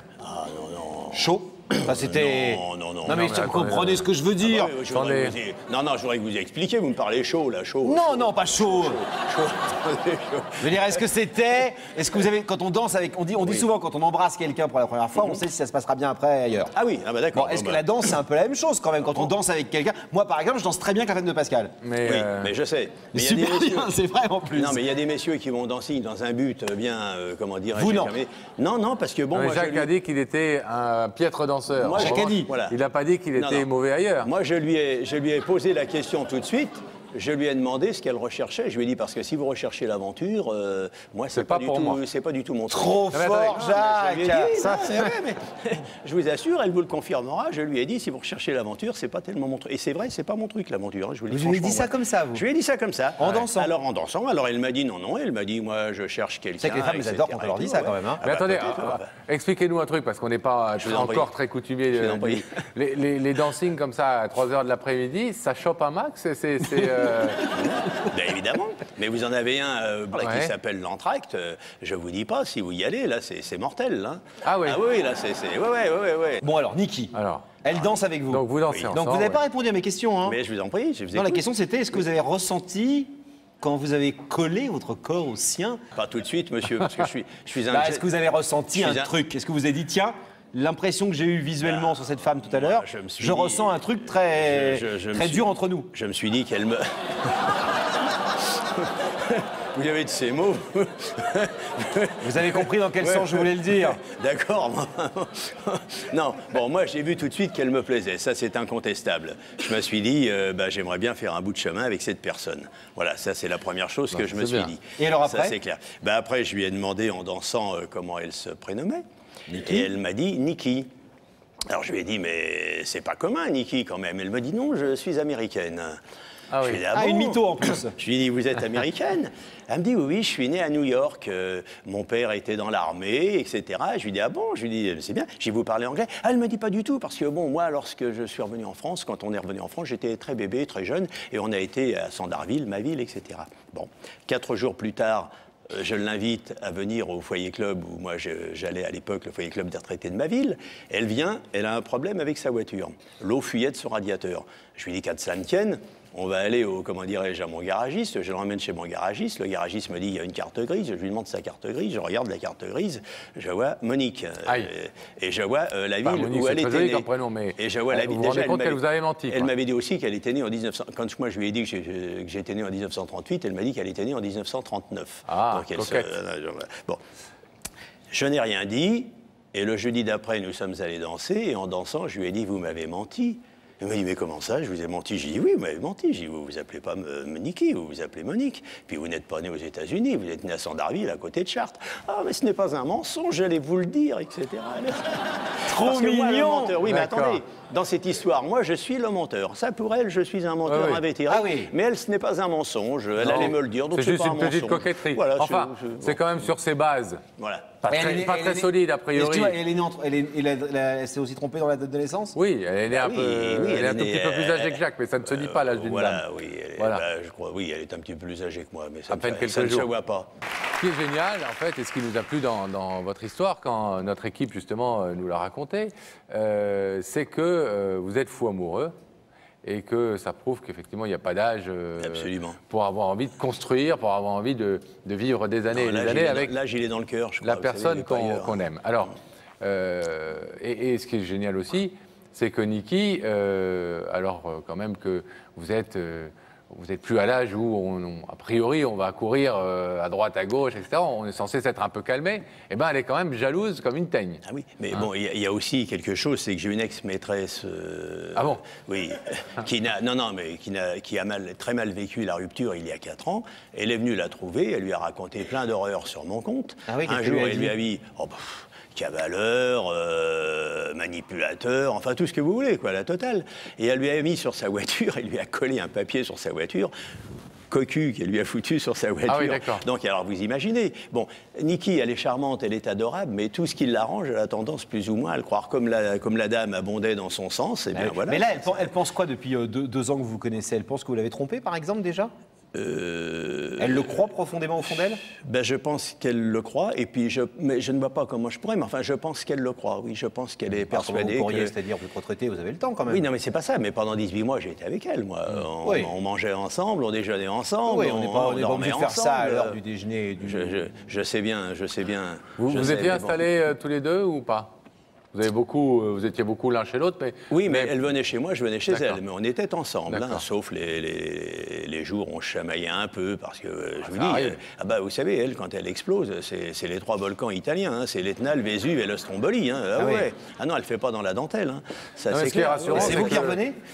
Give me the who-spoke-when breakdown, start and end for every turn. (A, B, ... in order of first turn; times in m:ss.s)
0:00.2-0:03.3 A
0:01.1-0:04.7 B
0:03.1-0:04.1 C
0:04.4-0:11.0 A
0:04.8-0:05.4 C
0:07.8-0:09.0 B
0:10.6-0:16.7 B
0:16.7-0:18.2 A
0:17.3-0:21.8 B
0:21.8-0:22.5 C
0:22.0-0:23.9 A
0:23.1-0:24.8 B
0:24.5-0:29.9 A
0:27.8-0:28.1 B
0:29.3-0:34.3 C
0:31.8-0:32.8 A
0:31.9-0:32.5 B
0:33.4-0:33.7 A
0:34.2-0:59.1 A
0:41.3-0:42.0 C
0:42.7-0:45.4 B
0:43.1-0:43.7 C
0:51.3-0:52.4 B
0:53.2-0:53.7 B
0:56.6-0:58.2 B
0:58.2-1:07.6 C
1:00.8-1:01.3 A
1:01.9-1:02.6 A
1:07.6-1:16.4 A
1:10.2-1:10.5 C
1:14.4-1:14.8 C
1:16.4-1:20.4 B
1:17.1-1:17.6 C
1:18.3-1:19.4 C
1:20.2-1:21.5 A
1:21.1-1:25.8 B
1:26.0-1:28.1 A
1:27.7-1:35.9 B
1:28.7-1:29.1 A
1:31.6-1:37.6 A
1:38.8-1:59.0 A
1:42.2-1:44.0 B
1:54.1-1:54.7 C
1:55.0-1:55.6 B
1:59.5-1:59.9 B
1:59.6-2:00.9 A
2:01.7-2:06.0 A
2:06.5-2:06.8 C
2:06.6-2:57.0 A
2:06.9-2:08.0 B
2:46.0-2:49.5 C
2:55.3-2:56.1 C
2:58.1-3:26.5 A
3:15.7-3:16.8 B
3:16.8-3:17.4 C
3:20.6-3:21.0 C
3:21.3-3:21.7 B
3:23.2-3:27.2 C
3:27.4-3:27.8 A
3:27.8-3:29.6 C
3:27.9-3:32.4 B
3:32.4-3:36.2 C
3:32.9-3:40.3 A
3:36.8-3:37.0 C
3:39.1-3:39.9 C
3:40.8-3:49.0 C
3:49.6-3:56.5 C
3:52.0-3:52.6 A
3:55.7-3:58.6 A
3:57.4-4:14.4 C
4:14.4-4:36.9 A
4:18.4-4:18.6 C
4:26.9-4:27.8 B
4:37.7-4:48.9 A
4:39.3-4:39.8 C
4:47.9-4:52.3 B
4:52.7-4:54.1 A
4:53.8-4:55.2 B
4:55.2-5:01.7 A
5:00.9-5:03.2 B
5:03.1-5:09.8 A
5:05.8-5:06.1 B
5:07.8-5:10.8 B
5:10.4-5:13.4 A
5:12.6-5:14.7 C
5:15.3-5:17.9 C
5:17.5-5:33.6 A
5:18.9-5:19.2 C
5:20.1-5:20.4 C
5:24.1-5:24.6 C
5:30.0-5:30.3 B
5:32.3-5:33.6 C
5:32.8-5:33.8 B